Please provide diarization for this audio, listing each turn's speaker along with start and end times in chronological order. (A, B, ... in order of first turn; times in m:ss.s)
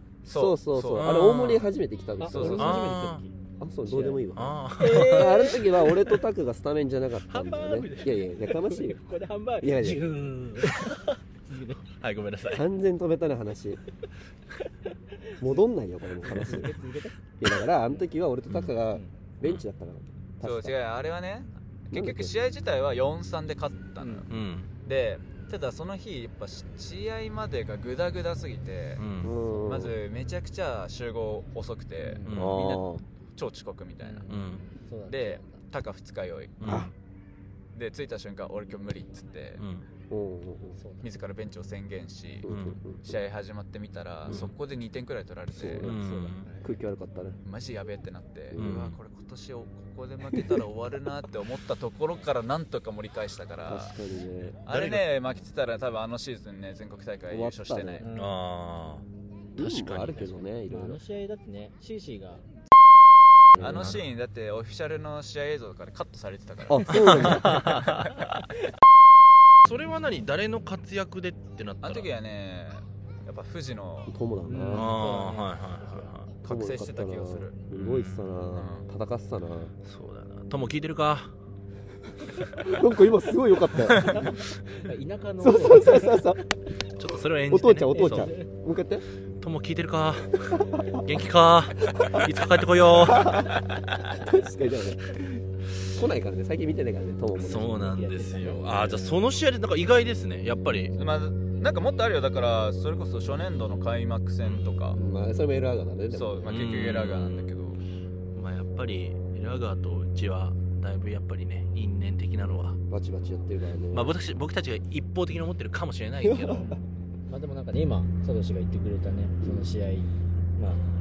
0:00.2-0:01.1 A
0:00.2-0:03.0 B
0:00.9-0:01.7 C
0:02.2-0:03.3 D
0:02.3-0:02.9 A
0:02.4-0:03.2 C
0:03.6-0:09.0 B
0:03.9-0:04.2 D
0:04.3-0:05.6 C
0:04.8-0:06.1 D
0:07.3-0:11.8 D
0:07.4-0:08.1 C
0:09.6-0:10.0 B
0:10.6-0:11.1 C
0:11.8-0:12.6 C
0:12.5-0:13.8 B
0:15.4-0:16.8 B
0:16.2-0:17.2 D
0:17.4-0:20.7 B
0:20.4-0:24.3 A
0:21.9-0:22.3 B
0:24.0-0:24.3 D
0:24.3-0:24.7 C
0:24.8-0:29.0 A
0:29.0-0:29.3 C
0:29.2-0:30.0 B
0:29.6-0:34.3 A
0:32.0-0:32.4 D
0:32.3-0:32.7 C
0:32.3-0:33.0 B
0:34.0-0:35.5 D
0:34.3-0:34.6 C
0:35.1-0:36.8 A
0:36.6-0:36.9 C
0:36.6-0:36.9 B
0:37.7-0:39.6 A
0:39.6-0:39.8 C
0:40.1-0:40.8 B
0:40.8-0:41.1 D
0:41.0-0:42.5 A
0:42.4-0:43.2 B
0:42.5-0:42.8 C
0:43.0-0:46.0 A
0:44.3-0:44.5 C
0:45.5-0:46.0 B
0:45.8-0:46.4 C
0:45.9-0:46.8 D
0:46.6-0:47.4 B
0:47.4-0:53.9 A
0:48.5-0:48.8 B
0:48.6-0:49.0 C
0:53.6-0:54.6 B
0:54.6-0:58.1 A
0:54.7-0:55.1 C
0:57.3-0:58.0 B
0:58.0-0:58.4 D
0:58.1-0:59.0 C
0:59.6-1:01.0 B
0:59.6-1:00.3 C
1:00.7-1:02.4 D
1:03.5-1:04.0 B
1:03.6-1:08.4 A
1:06.6-1:07.8 B
1:06.9-1:08.2 C
1:09.6-1:12.1 C
1:11.8-1:14.1 A
1:14.1-1:15.0 B
1:14.5-1:16.1 D
1:14.7-1:16.3 C
1:16.4-1:17.6 A
1:16.4-1:19.7 B
1:17.7-1:18.4 C
1:18.5-1:18.9 A
1:19.8-1:21.3 C
1:22.6-1:24.4 B
1:24.8-1:26.4 D
1:25.4-1:26.4 B
1:27.0-1:28.3 C
1:27.5-1:29.0 B
1:27.9-1:28.5 D
1:29.4-1:33.5 C
1:30.4-1:31.1 D
1:32.0-1:32.2 B
1:33.0-1:33.6 B
1:34.2-1:37.9 B
1:37.4-1:40.9 C
1:37.7-1:39.2 D
1:40.9-1:45.0 A
1:44.4-1:44.7 C
1:44.9-1:46.6 B
1:46.1-1:47.8 A
1:46.4-1:47.6 C
1:48.4-1:52.8 C
1:52.9-1:54.1 B
1:53.9-1:56.7 C
1:56.2-1:56.8 B
1:57.3-2:00.8 D
1:59.4-1:59.7 B